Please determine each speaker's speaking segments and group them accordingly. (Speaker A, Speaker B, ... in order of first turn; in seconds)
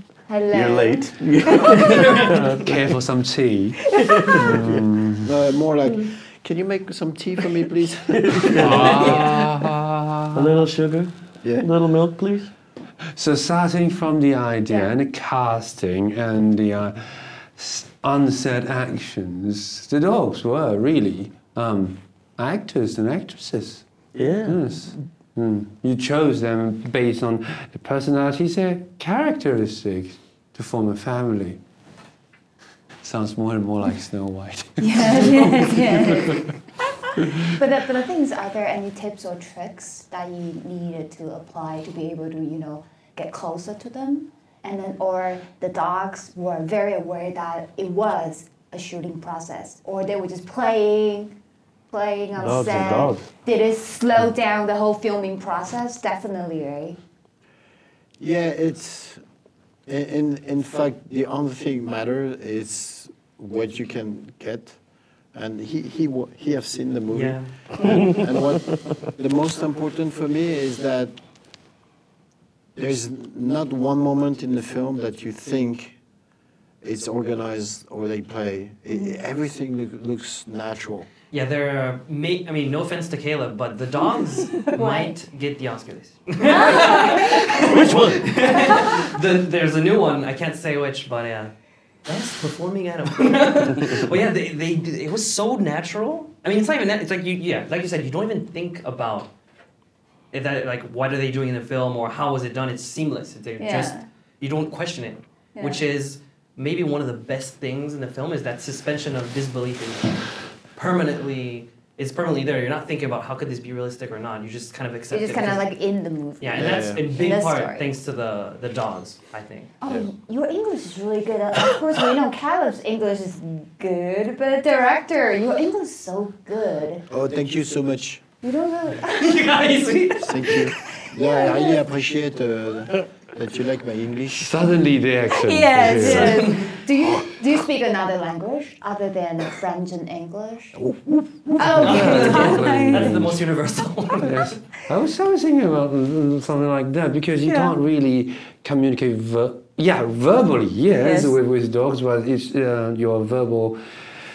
Speaker A: 0.3-2.4, 4.0-4.4, 14.7-14.9, 34.8-51.3, 51.9-57.0, 78.9-79.2, 84.6-85.2, 86.5-89.1, 103.6-104.0, 105.5-105.8, 115.1-117.9, 119.8-127.1, 128.4-129.6, 130.5-131.8, 135.3-140.8, 141.6-143.2, 147.4-147.8, 150.9-151.3
Speaker B: 0.5-2.8, 3.9-4.9, 8.1-9.5, 10.3-12.5, 24.1-24.6, 52.4-53.3, 67.8-68.6, 87.6-88.3
Speaker C: 1.8-2.4, 67.1-67.5, 81.3-91.5, 92.0-99.3, 100.3-115.7, 116.4-119.7, 129.1-130.6, 135.9-136.8, 141.8-144.6
Speaker D: 2.4-5.3, 8.6-10.6, 13.1-23.8, 24.4-31.6, 33.0-36.5, 37.2-37.5, 134.3-136.5, 141.8-143.4, 144.2-153.8
Speaker E: 5.2-9.2, 11.4-11.7, 58.2-59.2, 59.9-64.8, 65.3-71.2, 72.8-76.0, 76.8-81.1, 116.5-117.0, 127.1-128.2, 130.2-134.7, 140.7-142.0